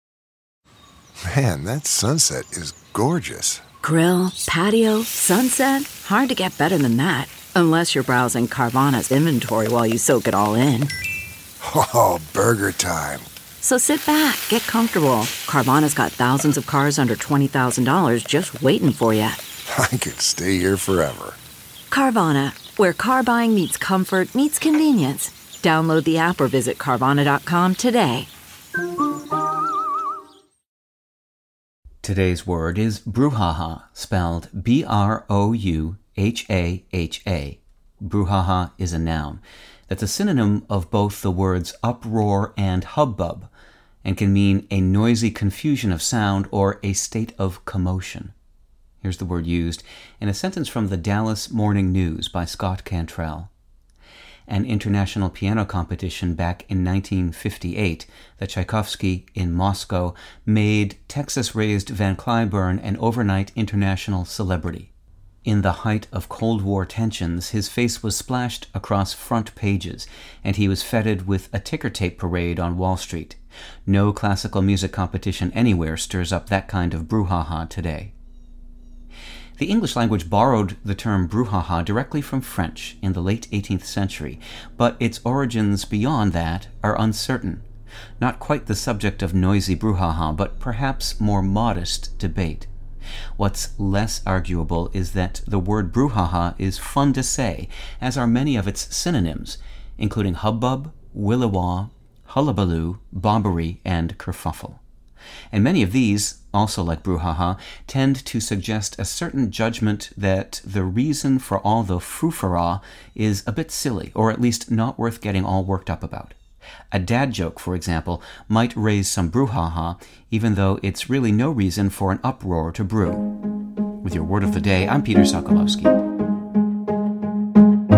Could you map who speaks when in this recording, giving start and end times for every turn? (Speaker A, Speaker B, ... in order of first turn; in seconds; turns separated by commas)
Speaker A: 1.2-3.6, Speaker B: 3.8-10.9, Speaker A: 11.6-13.3, Speaker B: 13.6-19.4, Speaker A: 19.7-21.4, Speaker B: 21.9-28.3, Speaker C: 32.0-43.5, Speaker C: 44.0-48.3, Speaker C: 49.0-53.5, Speaker C: 54.5-64.9, Speaker C: 65.5-78.1, Speaker C: 79.6-87.7, Speaker C: 88.2-92.7, Speaker C: 93.4-104.8, Speaker C: 105.5-116.4, Speaker C: 116.9-123.3, Speaker C: 124.0-126.0